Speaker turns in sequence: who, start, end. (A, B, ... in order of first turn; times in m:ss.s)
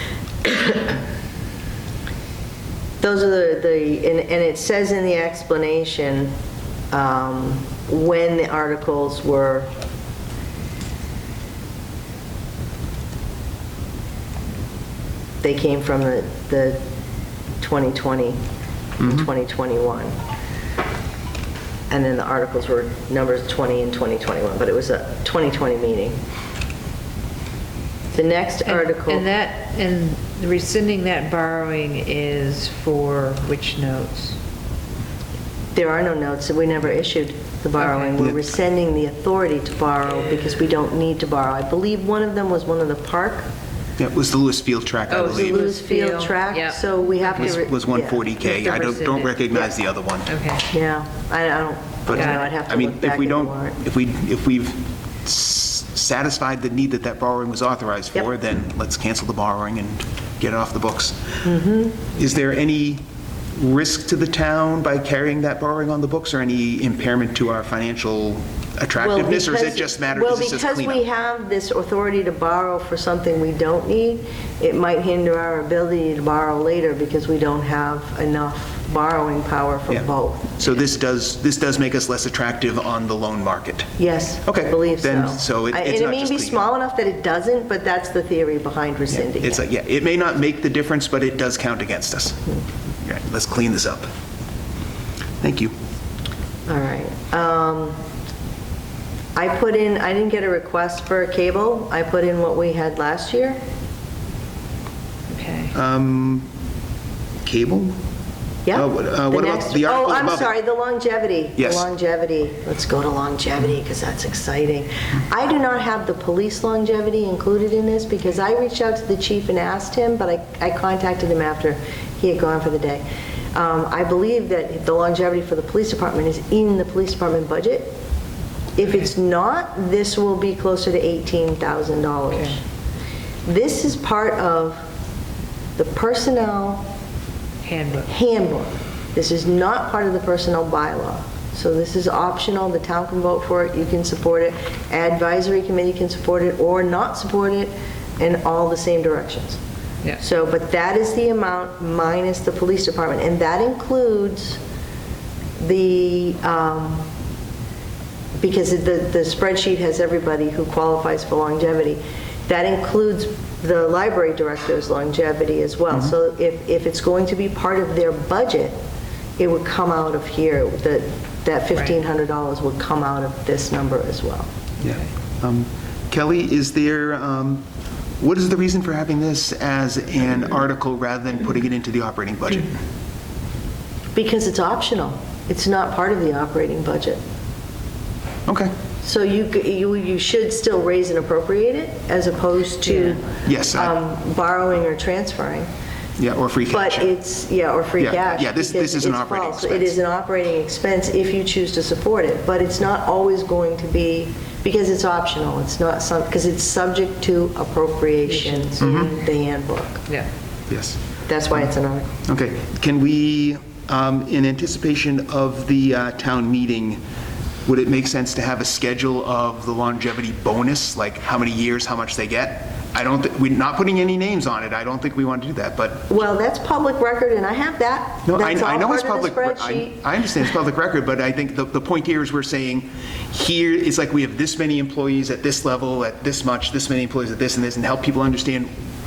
0:00.4-0:01.0 A
0:03.0-0:06.3 A
0:06.9-0:09.7 A
0:15.4-0:16.8 A
0:17.6-0:18.4 A
0:19.0-0:19.3 B
0:19.0-0:20.2 A
0:21.9-0:26.2 A
0:28.1-0:29.2 A
0:28.6-0:34.4 C
0:35.7-0:43.5 A
0:37.8-0:38.1 C
0:44.0-0:45.6 B
0:45.1-0:47.6 C
0:45.2-0:48.2 A
0:47.3-0:50.3 B
0:48.4-0:49.6 C
0:50.2-0:50.6 C
0:50.7-0:53.8 A
0:52.0-1:01.4 B
0:52.2-0:52.4 C
1:01.4-1:02.1 A
1:02.1-1:03.0 B
1:03.5-1:11.0 B
1:09.0-1:20.7 A
1:20.6-1:23.9 B
1:24.0-1:29.6 A
1:24.4-1:26.7 B
1:29.1-1:32.4 B
1:33.0-1:34.1 B
1:35.4-1:35.7 B
1:36.7-1:38.0 A
1:39.3-1:43.6 A
1:45.3-1:45.7 C
1:45.7-1:46.5 B
1:47.4-1:47.9 B
1:48.6-2:08.0 A
1:48.7-1:50.5 B
1:51.6-1:51.9 B
2:08.8-2:12.6 A
2:13.4-2:14.8 A
2:15.8-2:16.9 A
2:17.6-2:18.1 C
2:18.1-2:29.6 A
2:30.2-2:34.6 A
2:35.6-2:37.1 A
2:38.4-2:48.8 A
2:49.4-2:54.5 A
2:54.8-2:55.1 C
2:54.8-2:57.6 B
2:58.2-3:02.8 B
3:04.1-3:07.2 A
3:08.5-3:08.7 B
3:09.0-3:15.7 A
3:12.8-3:13.2 C
3:13.4-3:13.9 B
3:16.2-3:17.1 B
3:16.7-3:30.0 A
3:18.0-3:20.0 B
3:28.3-3:28.8 C
3:28.8-3:29.1 B
3:30.7-3:31.0 B
3:31.2-3:32.1 A
3:32.2-3:37.0 B
3:37.6-3:46.1 B
3:46.1-3:50.0 A
3:48.2-3:58.7 B